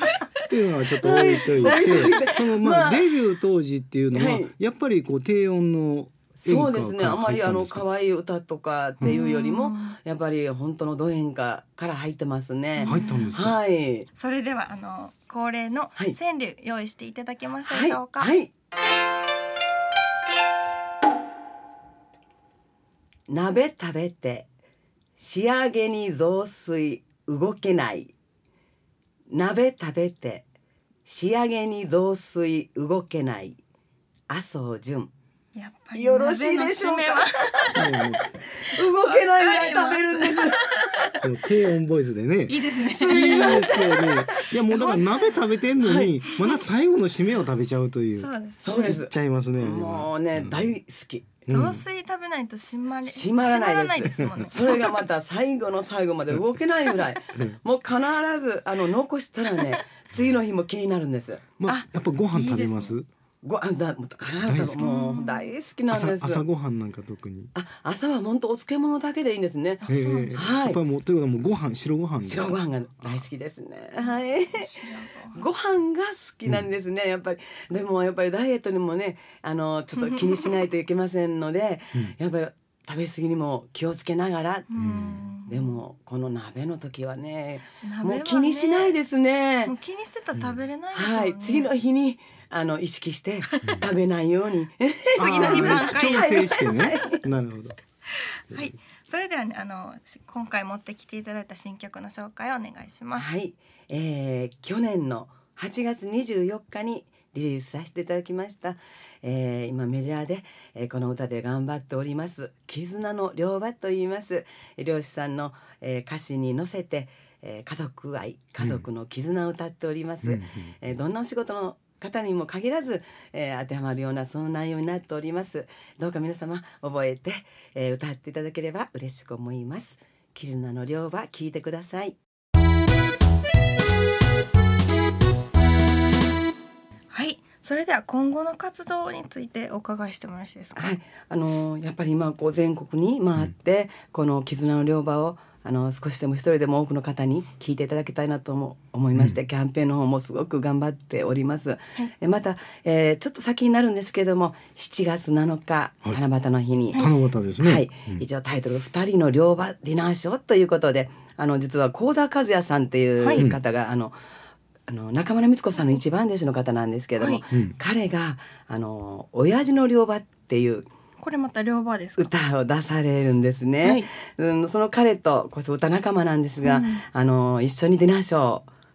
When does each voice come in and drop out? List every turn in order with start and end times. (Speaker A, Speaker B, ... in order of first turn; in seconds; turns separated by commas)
Speaker A: 0.4-7.8, Speaker B: 0.9-3.1, Speaker B: 4.1-4.5, Speaker B: 6.4-14.1, Speaker C: 9.0-10.0, Speaker C: 12.8-13.4, Speaker A: 12.8-13.6, Speaker C: 14.1-18.3, Speaker B: 17.6-18.5, Speaker B: 23.3-24.5, Speaker B: 25.2-28.1, Speaker B: 29.3-30.4, Speaker B: 31.1-33.6, Speaker B: 34.3-35.1, Speaker C: 35.5-37.8, Speaker B: 35.9-37.7, Speaker A: 37.7-38.3, Speaker B: 38.6-40.6, Speaker C: 39.0-41.2, Speaker A: 41.2-48.3, Speaker C: 42.5-45.3, Speaker B: 43.1-43.7, Speaker B: 45.8-46.1, Speaker C: 48.1-49.0, Speaker B: 48.6-51.4, Speaker A: 48.8-50.6, Speaker A: 51.5-51.8, Speaker C: 51.5-54.9, Speaker B: 53.0-61.5, Speaker A: 61.6-63.1, Speaker C: 61.6-63.0, Speaker B: 63.4-66.4, Speaker A: 64.4-64.9, Speaker C: 64.8-65.5, Speaker A: 65.9-67.5, Speaker B: 67.5-70.8, Speaker C: 69.8-70.4, Speaker A: 69.9-73.2, Speaker B: 72.2-74.7, Speaker C: 74.0-75.4, Speaker B: 75.3-84.9, Speaker C: 84.7-85.8, Speaker A: 84.8-85.2, Speaker B: 85.5-89.7, Speaker C: 87.8-89.0, Speaker C: 89.6-91.7, Speaker A: 90.3-90.6, Speaker B: 90.9-97.0, Speaker A: 93.6-93.9, Speaker A: 95.2-97.8, Speaker C: 95.2-96.7, Speaker C: 98.5-103.3, Speaker B: 103.1-132.2, Speaker A: 120.2-120.7, Speaker C: 137.1-141.0, Speaker B: 140.7-164.2, Speaker A: 156.9-158.2, Speaker B: 164.9-170.9, Speaker C: 171.2-172.3, Speaker B: 172.2-178.7, Speaker C: 176.6-177.0